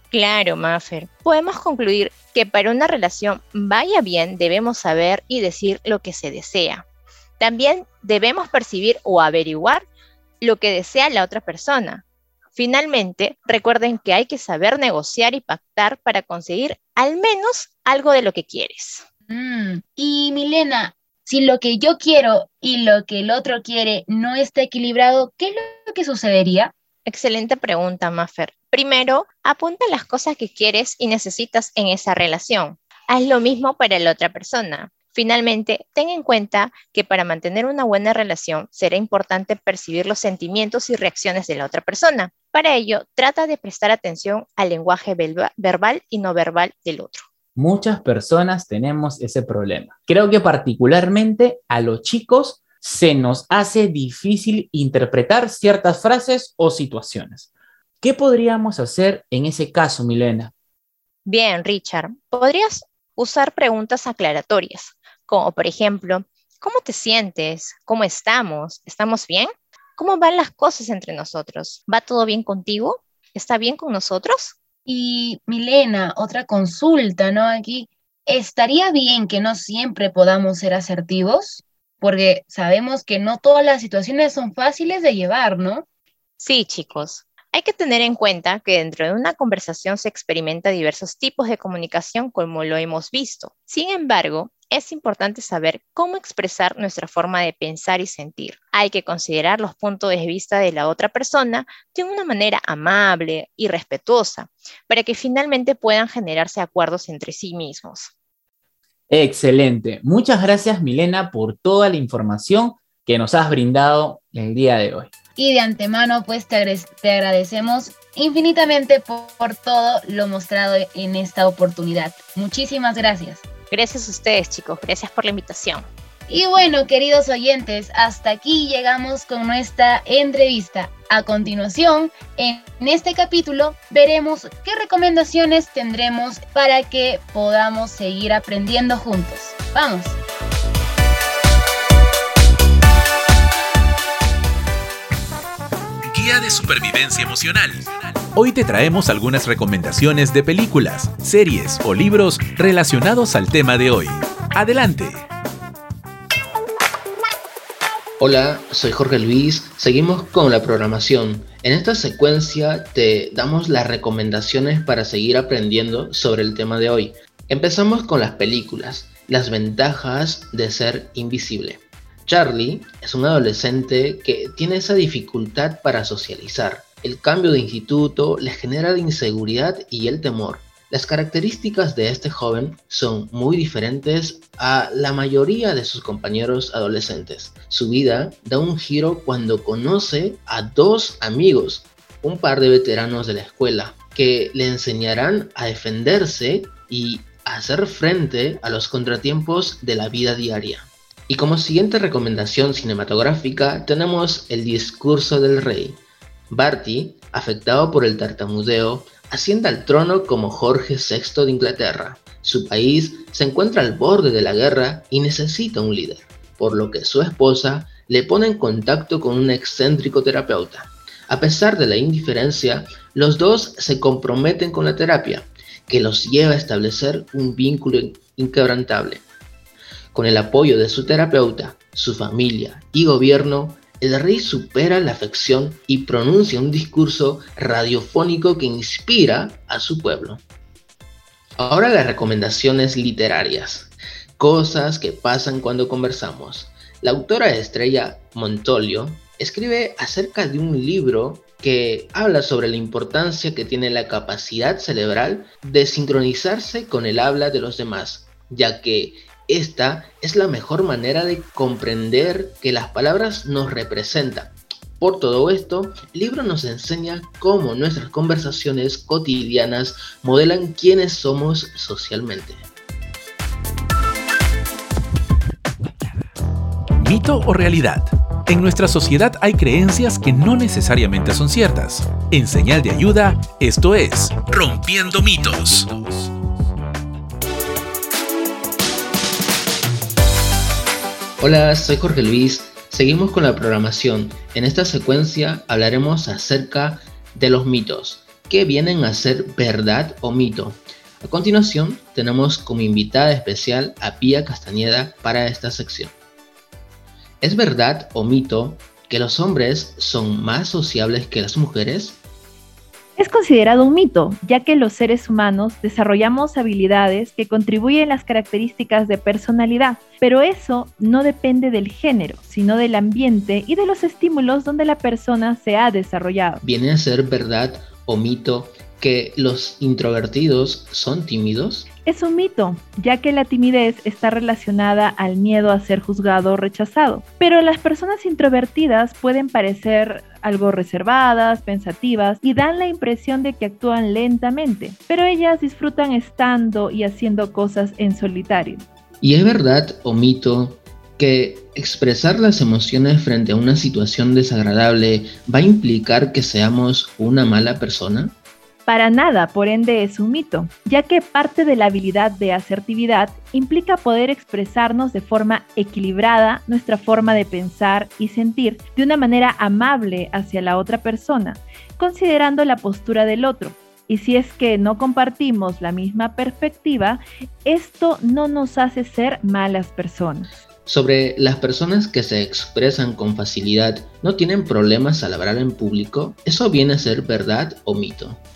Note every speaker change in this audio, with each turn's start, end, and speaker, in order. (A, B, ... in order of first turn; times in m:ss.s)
0:00.1-0:06.8 A
0:07.4-0:09.8 A
0:10.4-0:12.0 A
0:12.6-0:19.0 A
0:19.3-0:26.7 B
0:27.0-0:47.2 A
0:47.6-0:57.5 C
0:58.0-1:00.5 C
1:01.2-1:14.5 A
1:14.8-1:25.8 B
1:26.4-1:48.1 A
1:49.1-1:55.1 C
1:55.4-2:03.4 B
2:03.7-2:05.8 A
2:06.3-2:20.2 B
2:26.1-2:35.2 D
2:38.2-3:49.2 E
3:50.1-4:00.4 E
4:01.6-4:32.6 E
4:37.0-4:46.3 D
4:51.4-5:06.1 E
5:07.4-5:12.2 E
5:13.2-5:26.6 F
5:26.6-5:31.9 E
5:32.0-5:48.8 F
5:49.2-5:58.3 E
5:58.9-6:20.5 F
6:20.8-6:28.4 E